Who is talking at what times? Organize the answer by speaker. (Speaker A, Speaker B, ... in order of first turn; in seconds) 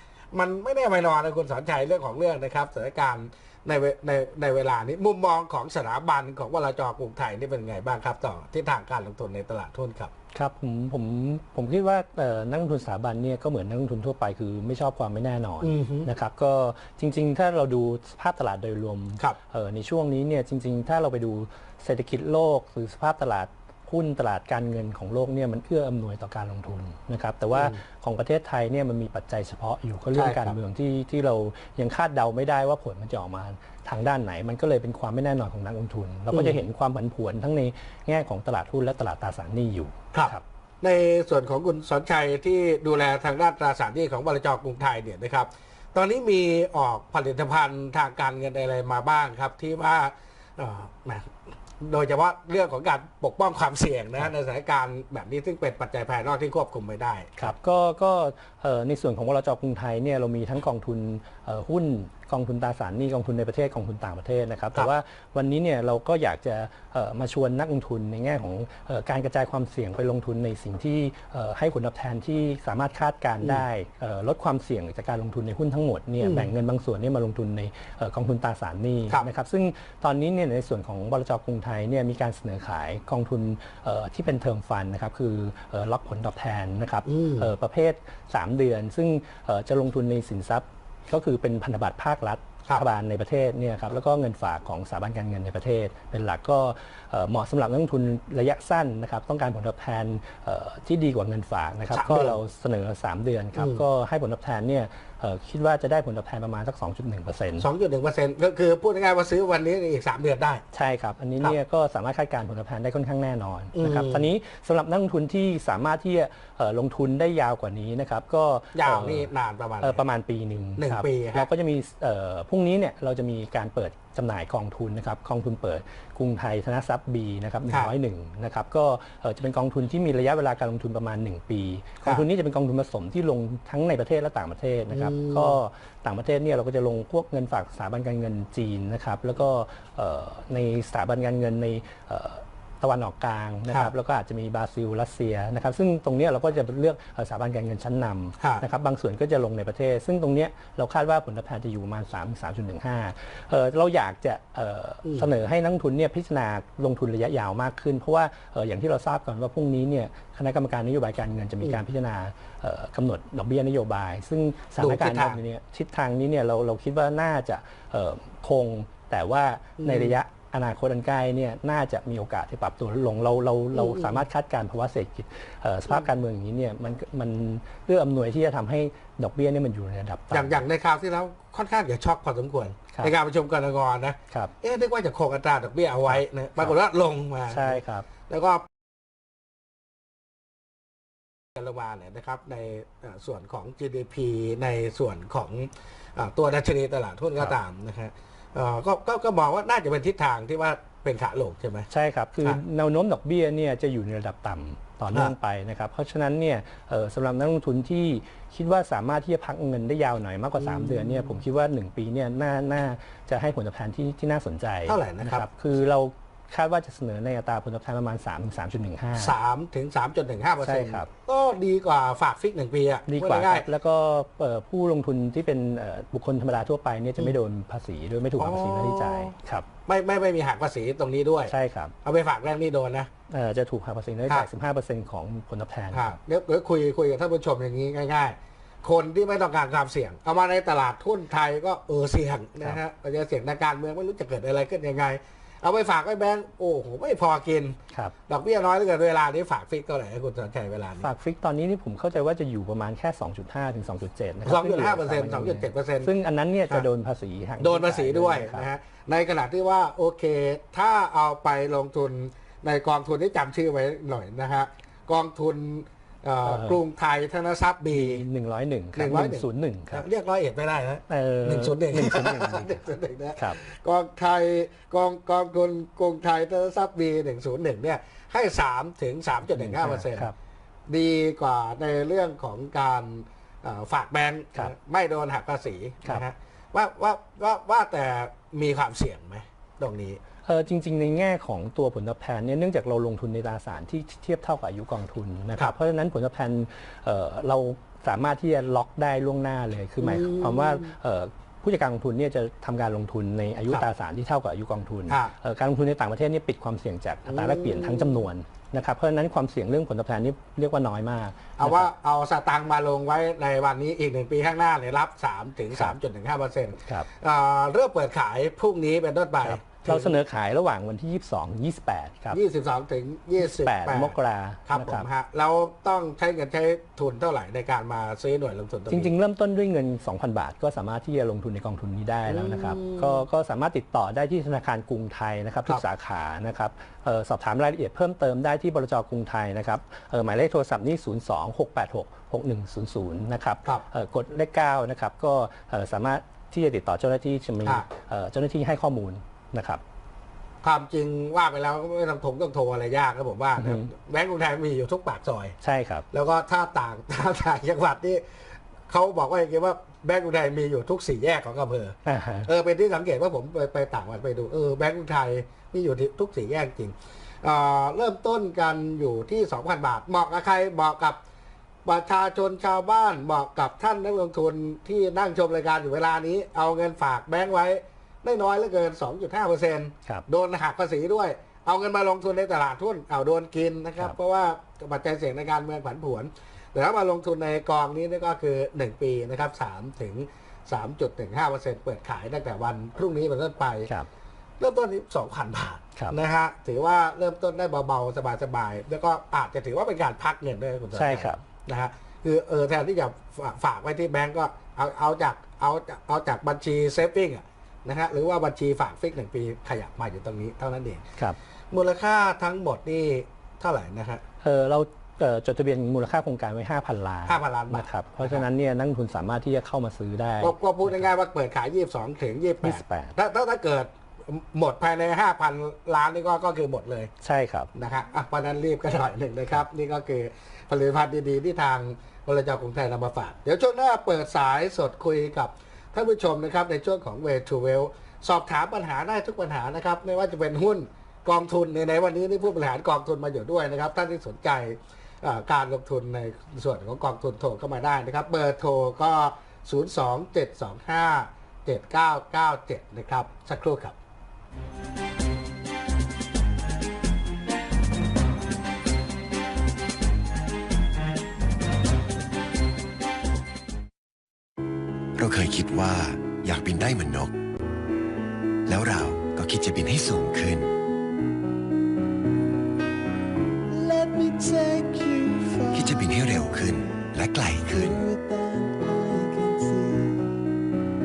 Speaker A: 0.3-10.1, 15.6-16.1, 27.5-27.8, 30.1-30.6, 36.3-36.6, 40.1-57.5, 76.2-76.5, 87.1-87.5, 101.9-102.4, 103.6-103.8, 107.6-110.6, 113.7-114.3, 118.7-120.0, 120.8-121.5, 127.7-127.9, 134.9-135.6, 164.8-165.4, 169.8-170.2, 173.7-174.2, 180.3-188.7, 191.5-201.9, 210.6-211.4, 214.8-215.4, 219.2-223.7, 228.4-229.3, 229.8-233.1, 235.9-251.1, 254.4-256.1, 257.6-268.2, 268.9-280.3, 280.9-290.2, 300.0-300.9, 305.1-305.3, 307.3-308.2, 311.6-320.1, 322.3-324.1, 324.7-329.1, 332.3-333.2, 350.6-355.5, 356.1-358.2, 358.9-371.2, 371.8-393.9, 394.6-411.1, 411.7-414.2, 417.3-418.4, 420.4-427.1, 427.7-453.9
Speaker B: 10.3-40.4, 57.4-107.7, 110.7-119.3, 119.8-180.6, 187.5-188.1, 201.9-219.3, 220.6-221.1, 223.1-229.7, 231.5-231.9, 233.3-236.2, 251.0-258.7, 266.4-266.8, 267.9-270.1, 271.1-273.6, 279.5-280.3, 290.4-311.9, 319.4-322.4, 323.4-325.1, 328.9-349.8, 353.6-353.9, 355.6-356.1, 362.1-362.5, 400.9-401.4, 414.4-421.1, 422.6-423.1, 427.2-427.7
Speaker C: 465.1-467.3, 468.7-470.7, 475.7-478.0
Speaker D: 473.7-480.4